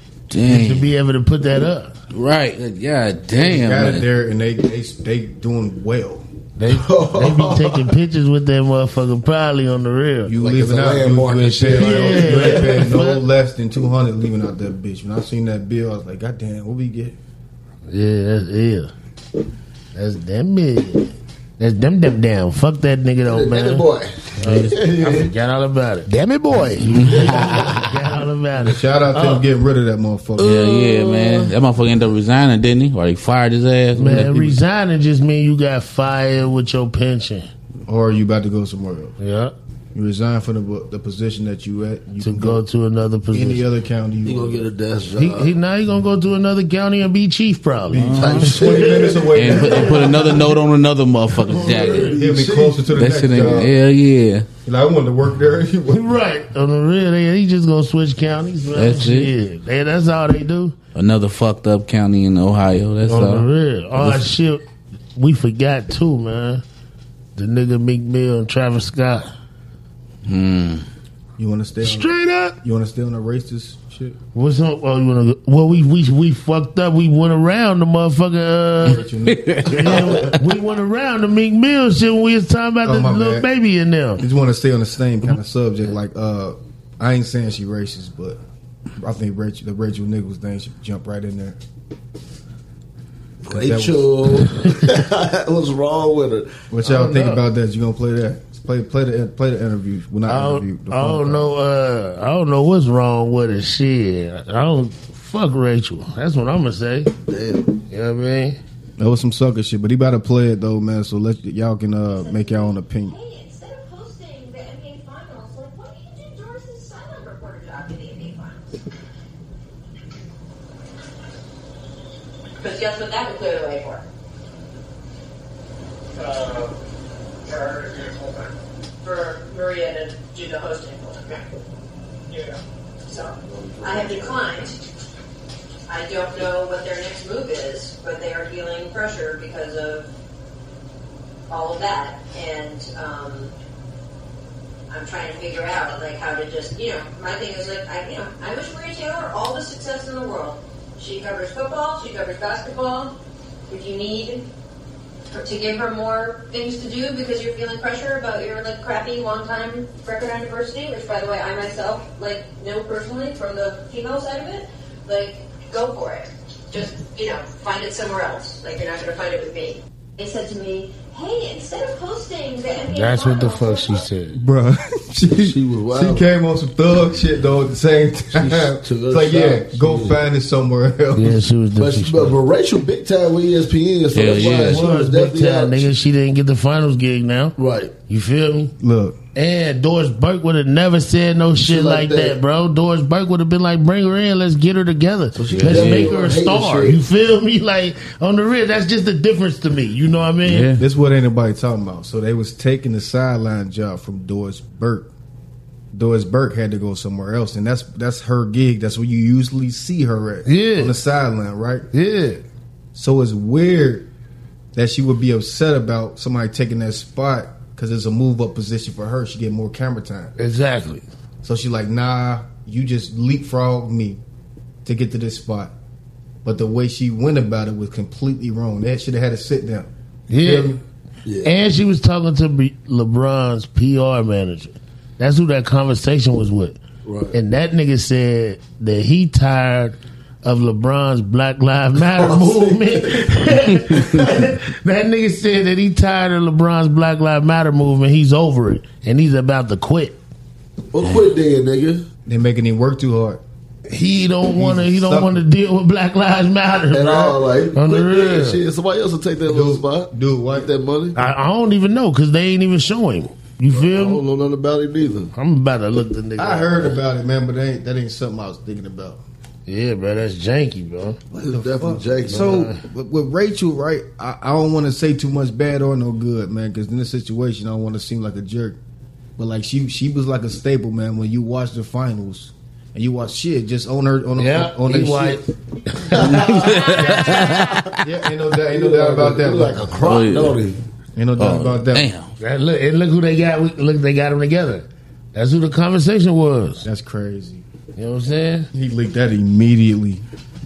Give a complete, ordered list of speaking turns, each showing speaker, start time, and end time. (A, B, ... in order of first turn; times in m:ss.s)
0:00.3-0:00.9 A
0:00.4-0:02.0 B
0:02.1-0:04.1 A
0:03.4-0:06.3 C
0:06.6-0:10.3 B
0:06.7-0:07.9 D
0:10.3-0:17.2 C
0:10.4-0:12.8 D
0:11.7-0:13.2 B
0:17.9-0:18.9 B
0:20.0-0:23.9 B
0:23.2-0:25.3 D
0:24.4-0:29.4 B
0:24.4-0:24.7 A
0:26.6-0:27.8 D
0:26.9-0:27.8 A
0:28.6-0:30.8 C
0:30.4-0:34.6 A
0:30.7-0:31.5 B
0:34.0-0:37.5 B
0:37.9-0:39.2 C
0:39.2-0:39.5 B
0:39.9-0:42.6 C
0:42.2-0:43.6 B
0:43.3-0:44.7 C
0:44.2-0:45.6 D
0:45.2-0:49.2 B
0:47.9-0:50.2 C
0:47.9-0:48.7 A
0:48.2-0:49.3 D
0:49.3-0:52.2 A
0:49.7-0:50.4 B
0:51.4-0:52.1 B
0:51.5-0:53.6 D
0:52.2-0:53.8 C
0:53.0-0:54.5 A
0:54.6-0:56.2 C
0:55.9-1:00.8 B
0:58.8-0:59.3 A
1:01.0-1:04.3 A
1:03.1-1:04.6 B
1:05.2-1:06.6 B
1:07.4-1:09.3 B
1:10.2-1:10.8 A
1:11.4-1:14.2 C
1:11.8-1:12.6 B
1:14.3-1:19.0 B
1:18.8-1:20.3 C
1:19.3-1:20.2 A
1:19.7-1:24.2 B
1:22.8-1:23.5 C
1:24.2-1:28.4 C
1:29.0-1:31.6 C
1:33.4-1:37.2 D
1:33.5-1:34.4 C
1:36.7-1:41.5 C
1:36.9-1:37.4 B
1:40.3-1:47.1 B
1:47.3-1:47.8 D
1:47.9-1:48.6 B
1:49.0-1:53.2 C
1:52.1-1:58.8 E
2:02.6-2:04.0 E
2:06.2-2:06.7 E
2:07.5-2:11.5 E
2:13.1-2:14.8 E
2:13.4-2:14.5 D
2:15.9-2:20.1 E
2:21.5-2:23.5 E
2:24.9-2:33.2 E
2:33.7-2:34.5 E
2:35.3-2:54.0 E
2:52.9-2:54.4 B
2:54.3-3:01.4 C
2:55.4-2:56.2 D
2:58.3-3:00.2 D
3:01.2-3:02.4 B
3:01.8-3:05.9 D
3:04.1-3:04.8 A
3:04.5-3:07.6 B
3:07.6-3:07.9 D
3:08.1-3:08.7 B
3:08.8-3:09.2 C
3:09.4-3:20.7 B
3:11.6-3:12.4 D
3:15.4-3:17.0 D
3:15.5-3:16.2 A
3:20.4-3:20.8 A
3:20.8-3:25.1 C
3:25.9-3:31.9 C
3:30.5-3:31.0 B
3:31.9-3:32.4 B
3:32.9-3:34.1 C
3:34.8-3:40.3 C
3:40.4-3:41.0 B
3:41.4-3:44.2 C
3:44.8-3:45.7 C
3:46.4-3:50.8 C
3:50.3-3:50.8 B
3:51.2-3:51.5 D
3:51.4-3:56.8 B
3:57.0-3:57.4 D
3:57.3-4:10.2 B
4:02.0-4:04.5 D
4:10.9-4:12.1 D
4:12.3-4:13.4 C
4:13.9-4:18.6 B
4:14.6-4:15.4 C
4:16.9-4:21.2 D
4:19.4-4:20.7 C
4:21.2-4:24.2 B
4:23.7-4:25.3 D
4:25.4-4:27.0 B
4:26.4-4:29.2 C
4:29.7-4:31.2 B
4:31.3-4:32.7 D
4:31.5-4:38.8 C
4:32.3-4:32.8 B
4:39.4-4:45.5 C
4:44.4-4:47.4 B
4:46.2-4:46.7 D
4:46.2-4:48.0 A
4:48.0-4:50.2 C
4:48.7-4:50.8 D
4:50.0-4:50.7 A
4:51.2-4:52.1 C
4:51.4-4:52.3 A
4:52.4-4:56.9 B
4:56.8-4:57.6 C
4:58.0-4:58.7 B
4:58.7-5:00.2 C